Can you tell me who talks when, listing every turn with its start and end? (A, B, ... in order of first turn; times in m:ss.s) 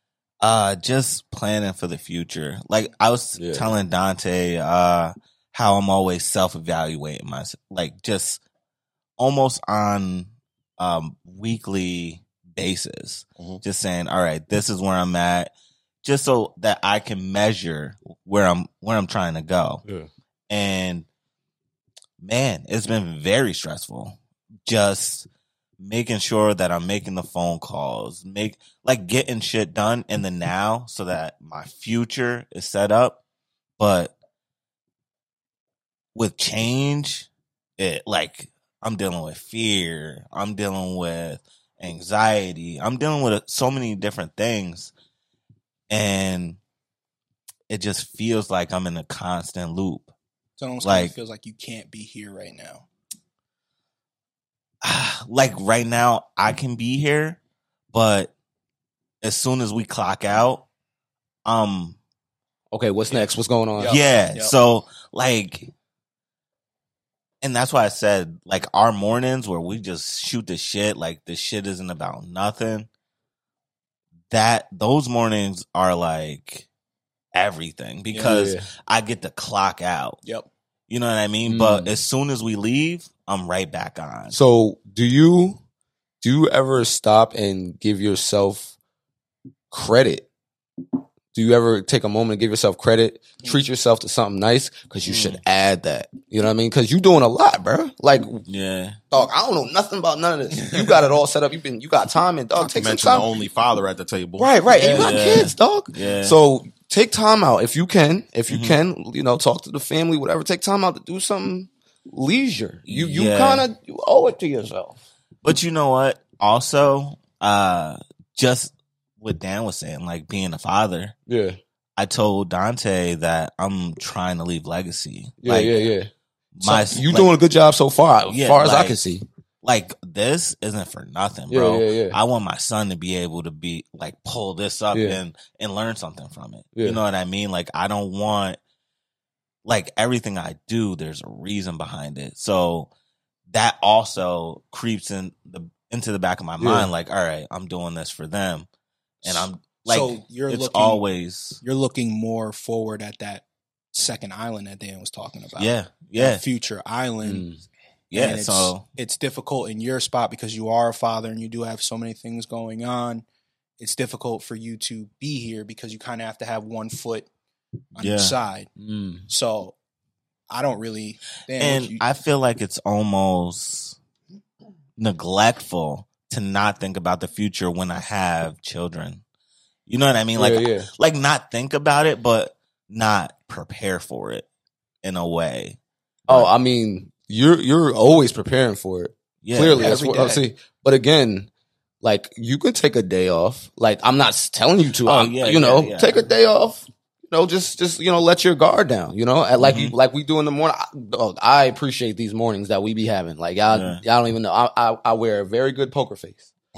0:00.4-0:08.4 A
0:03.4-0:03.7 B
0:09.2-0:15.5 A
0:13.4-0:13.6 C
0:16.0-0:19.8 A
0:20.5-0:21.1 A
0:22.2-0:25.3 A
0:25.8-0:33.2 A
0:33.8-0:34.1 A
0:36.2-0:44.9 A
0:45.9-0:46.6 A
0:47.7-0:50.1 A
0:50.6-0:52.9 D
0:50.8-0:51.1 A
0:54.8-0:57.4 A
0:57.9-0:58.3 A
0:59.2-1:00.7 A
1:01.4-1:02.0 A
1:02.7-1:04.0 B
1:03.1-1:04.5 D
1:03.9-1:05.7 A
1:07.4-1:12.9 A
1:14.3-1:16.7 A
1:17.3-1:20.2 A
1:18.2-1:18.7 B
1:20.9-1:24.4 A
1:21.4-1:21.9 B
1:24.3-1:25.6 B
1:26.2-1:28.7 B
1:29.7-1:30.3 B
1:31.3-1:38.5 B
1:35.0-1:35.4 A
1:38.5-1:39.0 A
1:39.1-1:43.3 B
1:42.6-1:44.5 C
1:44.4-1:55.0 B
1:44.7-1:45.3 D
1:45.0-1:46.4 A
1:48.5-1:48.8 A
1:52.9-1:53.7 A
1:55.4-2:01.2 A
2:01.3-2:01.6 B
2:02.0-2:05.8 A
2:05.4-2:06.1 B
2:06.6-2:07.3 A
2:06.6-2:09.3 B
2:08.3-2:09.0 A
2:09.6-2:18.6 A
2:11.5-2:12.2 B
2:14.9-2:15.2 B
2:16.8-2:17.0 B
2:19.6-2:22.9 A
2:23.5-2:28.7 A
2:26.6-2:26.9 B
2:29.2-2:31.6 A
2:29.3-2:31.0 D
2:31.6-2:37.5 D
2:35.6-2:36.4 A
2:37.2-2:37.6 B
2:38.1-2:38.8 A
2:38.1-2:43.2 D
2:43.8-2:47.3 D
2:48.0-2:48.7 D
2:48.0-2:48.4 A
2:48.8-2:49.3 B
2:49.3-2:49.8 D
2:50.5-2:52.0 D
2:51.6-2:54.0 A
2:55.0-2:59.2 A
2:59.9-3:04.5 A
3:00.4-3:00.9 B
3:05.0-3:06.5 A
3:06.3-3:11.5 B
3:09.4-3:10.0 A
3:09.7-3:10.5 D
3:12.0-3:26.5 B
3:15.0-3:16.2 A
3:19.6-3:19.9 A
3:23.7-3:24.0 A